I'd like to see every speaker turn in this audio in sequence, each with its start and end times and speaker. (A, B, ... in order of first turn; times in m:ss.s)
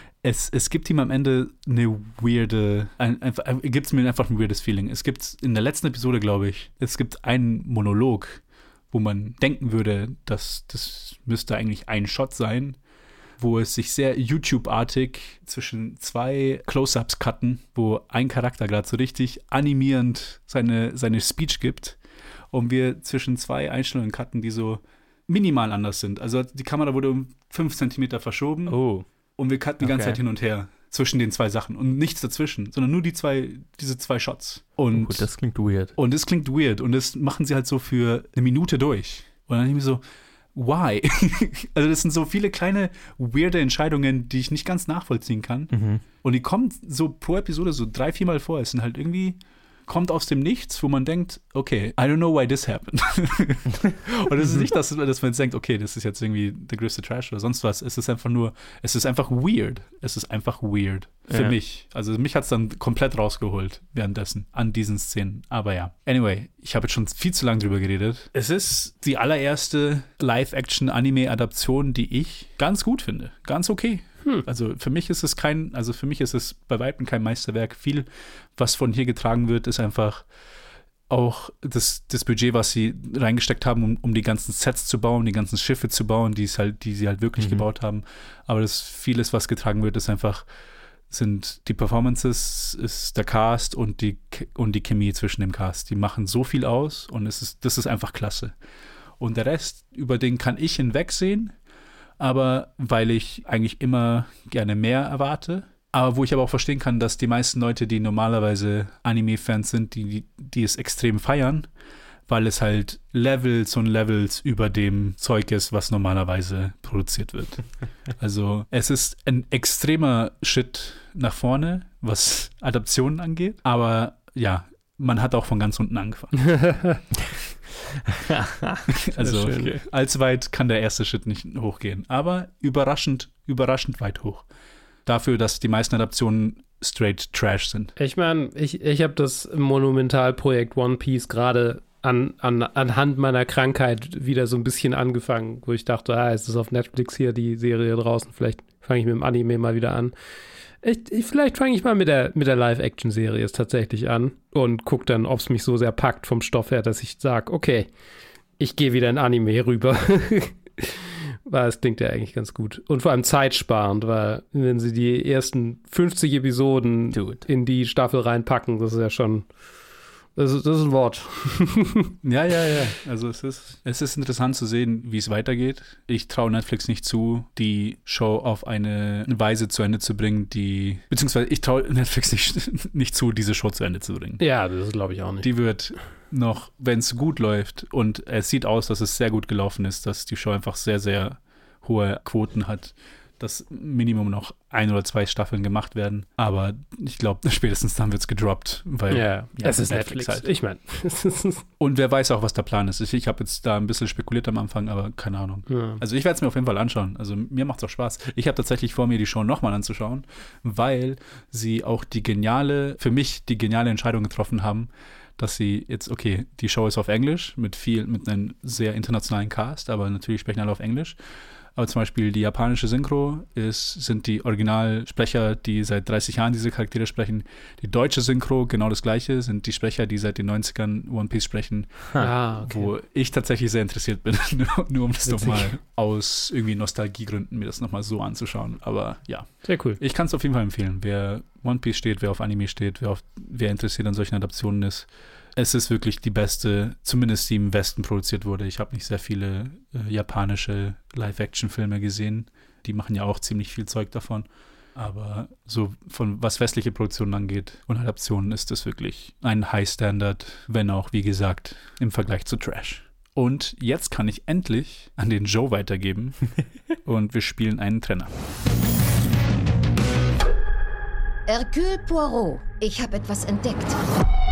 0:00.2-0:12.8 A
0:13.4-0:22.0 A
0:22.5-0:28.8 A
0:28.7-0:29.0 B
0:29.4-0:35.3 A
0:29.8-0:30.2 B
0:34.9-0:35.9 B
0:36.0-0:40.0 A
0:40.5-1:20.2 A
0:45.7-0:46.0 B
1:01.3-1:01.6 B
1:21.1-1:30.4 A
1:27.4-1:27.6 B
1:31.1-1:38.5 A
1:39.2-1:41.5 A
1:42.2-1:51.7 A
1:52.3-2:06.8 A
2:08.1-2:08.9 B
2:08.9-2:14.4 A
2:09.2-2:09.8 C
2:15.0-2:17.9 A
2:18.0-2:30.1 C
2:30.8-2:37.9 C
2:38.6-2:49.4 C
2:47.1-2:47.4 B
2:50.4-2:52.1 C
2:52.2-3:04.4 A
3:04.4-3:05.5 C
3:05.4-3:20.5 A
3:19.1-3:21.6 C
3:21.8-3:41.2 A
3:25.7-3:26.0 C
3:41.8-4:28.3 A
3:52.2-3:52.9 C
3:55.2-3:55.7 C
3:59.6-4:00.0 C
4:31.5-4:34.0 D